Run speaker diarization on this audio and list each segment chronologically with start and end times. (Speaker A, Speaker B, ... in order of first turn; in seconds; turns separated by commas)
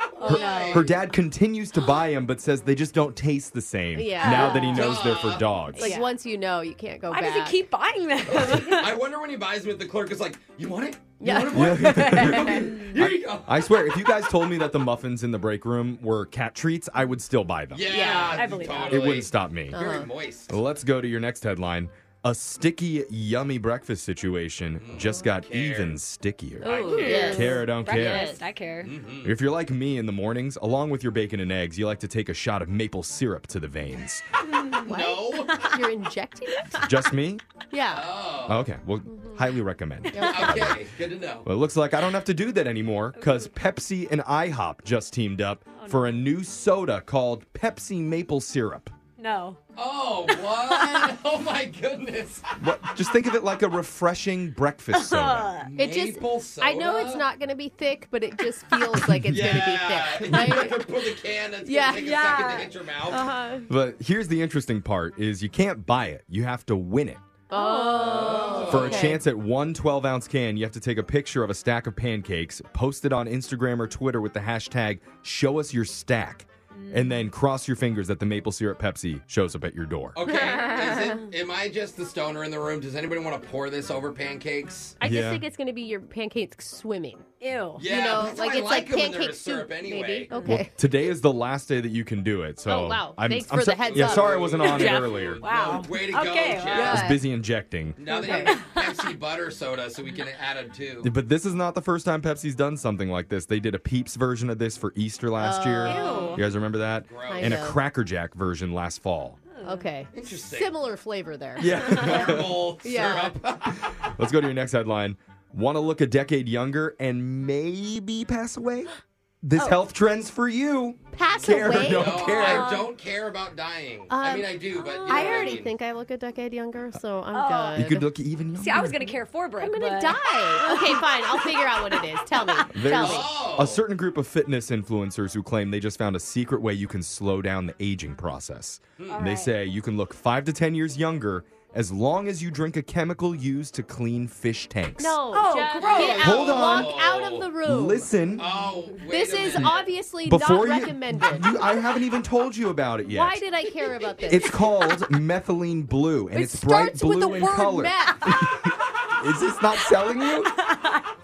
Speaker A: 0.1-0.9, Speaker B: 0.2-0.8, Speaker C: 0.2-5.9, Speaker D: 0.2-0.7, Speaker D: 3.9-4.9, Speaker B: 4.2-4.9, Speaker A: 4.7-5.5, Speaker B: 5.7-6.1, Speaker D: 5.8-7.6, Speaker B: 7.1-9.0, Speaker A: 8.3-13.6, Speaker D: 11.2-12.6, Speaker C: 11.5-18.3, Speaker B: 12.0-12.9, Speaker A: 17.7-20.6, Speaker D: 17.9-18.4, Speaker B: 17.9-19.1, Speaker C: 18.9-19.8, Speaker D: 19.7-20.1, Speaker C: 20.5-28.3, Speaker A: 24.8-26.0, Speaker D: 26.6-28.4, Speaker A: 26.6-27.4, Speaker B: 26.9-28.9, Speaker A: 28.8-29.3, Speaker C: 29.2-34.2, Speaker B: 34.5-34.8, Speaker A: 34.8-35.7, Speaker D: 34.9-36.9, Speaker C: 36.8-37.4, Speaker D: 37.7-38.1, Speaker A: 37.9-38.6, Speaker C: 38.5-40.8, Speaker D: 40.1-40.7, Speaker A: 40.1-41.5, Speaker C: 41.4-48.9, Speaker B: 43.1-43.5, Speaker B: 45.8-46.1, Speaker B: 49.2-49.6, Speaker A: 49.8-52.5, Speaker B: 50.2-51.1, Speaker C: 52.6-55.5, Speaker B: 54.9-55.7, Speaker A: 55.6-57.2, Speaker D: 55.8-60.9, Speaker A: 59.3-63.3, Speaker D: 61.6-62.2, Speaker B: 61.9-62.7, Speaker D: 63.1-63.7, Speaker C: 63.7-67.2, Speaker B: 67.5-68.8, Speaker D: 67.5-69.2, Speaker A: 67.9-69.1, Speaker C: 68.6-80.2, Speaker B: 76.7-77.2, Speaker A: 80.1-85.0, Speaker D: 80.2-81.2, Speaker D: 85.0-87.2, Speaker C: 85.0-85.4, Speaker B: 87.4-87.8, Speaker A: 87.8-90.3, Speaker D: 87.8-90.7, Speaker C: 90.4-95.4, Speaker D: 92.7-95.1, Speaker A: 93.9-97.0, Speaker B: 94.6-97.0, Speaker D: 96.7-97.2, Speaker C: 96.8-98.0, Speaker A: 98.0-101.1, Speaker D: 98.1-98.5, Speaker B: 98.2-99.1, Speaker C: 101.0-109.4, Speaker D: 105.4-106.4, Speaker B: 105.9-106.4, Speaker A: 106.0-106.4, Speaker A: 107.0-107.6, Speaker D: 107.2-107.8, Speaker B: 109.5-109.8, Speaker D: 109.6-112.1, Speaker A: 110.1-110.7, Speaker C: 111.6-112.7, Speaker A: 112.1-113.8, Speaker D: 112.8-113.4, Speaker C: 113.8-118.9, Speaker C: 119.4-122.7, Speaker D: 121.1-122.8, Speaker A: 121.7-125.7, Speaker D: 124.1-128.1, Speaker B: 124.8-125.5, Speaker B: 127.3-127.9, Speaker C: 127.7-129.1, Speaker B: 128.6-132.6, Speaker D: 129.6-133.3, Speaker C: 132.7-145.2, Speaker A: 132.9-133.8, Speaker B: 139.1-139.5, Speaker D: 145.0-148.1, Speaker B: 145.3-146.6, Speaker A: 145.8-147.5, Speaker C: 146.2-147.0, Speaker C: 147.6-148.4, Speaker A: 148.3-149.8, Speaker B: 148.5-148.9, Speaker D: 149.1-151.5, Speaker C: 150.2-153.4, Speaker D: 153.1-154.5, Speaker C: 154.3-160.6, Speaker D: 156.3-158.4, Speaker B: 160.4-161.0